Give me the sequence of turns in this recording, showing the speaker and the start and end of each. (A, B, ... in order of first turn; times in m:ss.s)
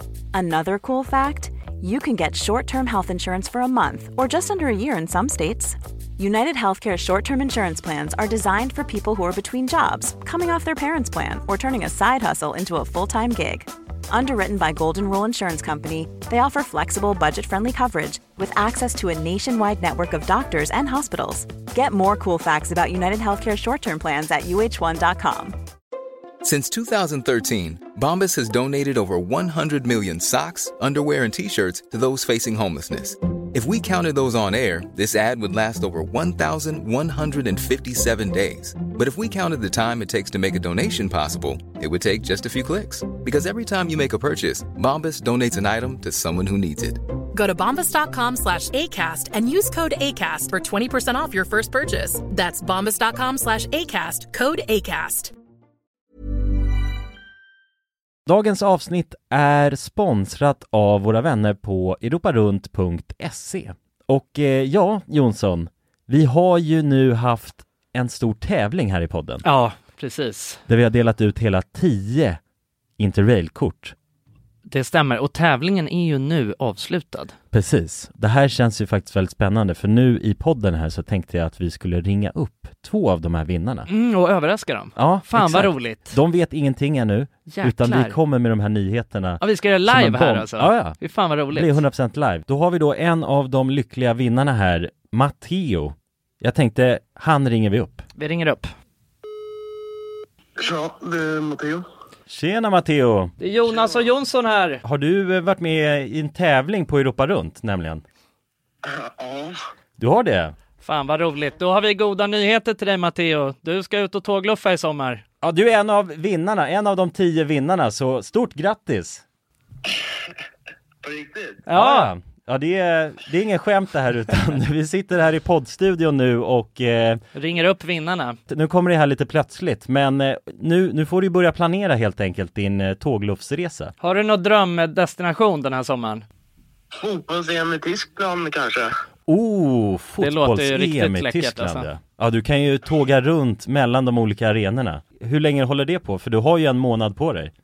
0:00.3-0:25.6 A
0:26.4-0:47.0 B
0:47.3-0:55.3 C
0:58.3-1:09.5 D
1:09.4-1:10.6 E
1:10.7-1:12.4 D
1:13.0-1:14.0 D
1:14.7-1:17.3 E
1:17.5-1:23.9 D
1:23.9-1:26.2 E
1:25.0-1:38.0 D
1:27.5-1:28.2 E
1:29.4-1:31.8 E
1:38.2-1:38.7 E
1:40.6-1:41.8 F
1:42.3-1:43.3 D
1:43.4-1:44.8 E
1:44.8-1:48.0 D
1:48.8-1:49.6 F
1:50.0-1:50.5 D
1:50.8-1:55.2 E
1:55.4-1:59.2 D
2:01.0-2:01.6 F
2:01.7-2:02.1 E
2:01.7-2:07.2 D
2:07.4-2:08.4 E
2:08.5-2:13.9 D
2:14.0-2:16.2 E
2:17.0-2:18.9 F
2:19.3-2:27.5 D
2:20.2-2:21.9 E